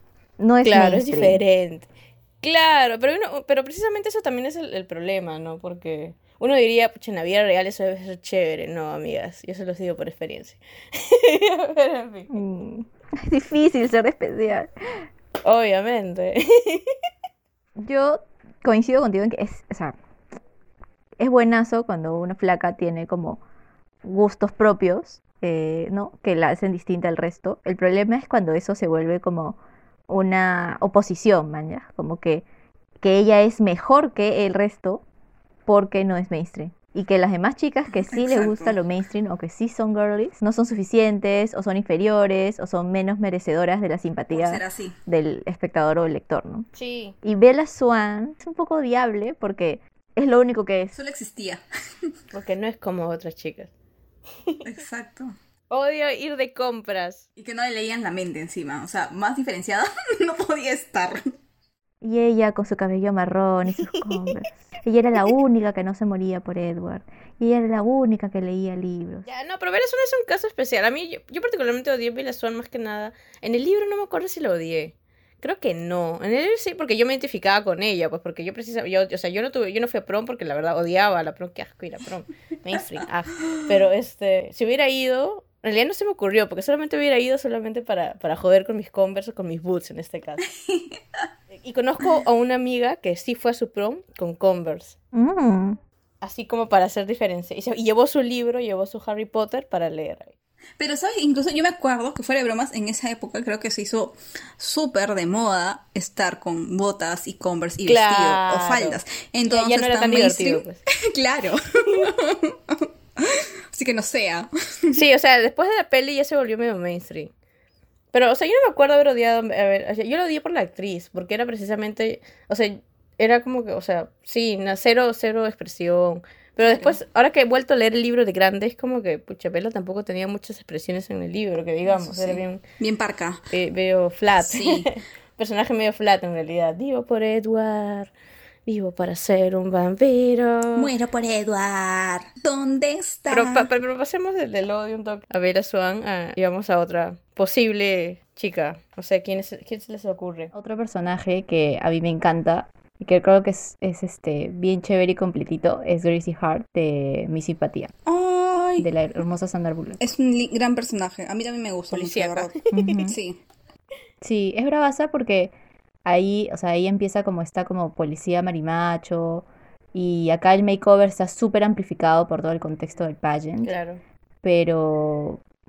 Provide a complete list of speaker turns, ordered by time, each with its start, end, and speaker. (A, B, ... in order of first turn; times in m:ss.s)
0:00.4-0:01.4 A
0:00.6-0:01.9 B
0:02.4-0:12.3 B
0:12.3-0:15.0 A
0:15.4-0:16.9 B
0:17.8-0:20.0 A
0:21.2-0:23.4 A
0:24.0-0:32.4 A
0:33.0-0:35.0 A
0:35.7-0:46.7 A
0:38.0-0:38.7 C
0:44.3-0:45.0 C
0:46.8-0:47.2 B
0:47.2-0:51.0 A
0:50.9-0:51.6 C
0:52.3-0:53.7 B
0:54.6-0:55.4 C
0:55.7-0:57.2 B
0:57.4-1:01.3 C
1:02.0-1:09.3 A
1:09.2-1:30.4 B
1:30.5-1:31.0 C
1:31.5-1:35.0 B
1:35.1-1:35.8 A
1:36.2-1:40.3 B
1:40.8-1:55.0 C
1:47.8-1:50.8 B
1:54.9-1:57.3 B
1:58.1-2:12.6 B
2:06.6-2:07.0 C
2:11.9-2:13.4 C
2:13.5-2:18.1 B
2:14.4-2:14.9 C
2:18.7-2:20.9 B
2:20.8-2:23.7 C
2:23.3-2:30.5 B
2:30.5-2:37.9 A
2:38.1-2:38.9 C
2:38.8-2:40.0 A
2:40.0-2:43.4 C
2:41.9-2:43.1 B
2:42.7-2:43.2 A
2:44.2-2:45.5 A
2:46.0-2:53.8 A
2:53.6-2:54.0 B
2:54.4-2:55.4 A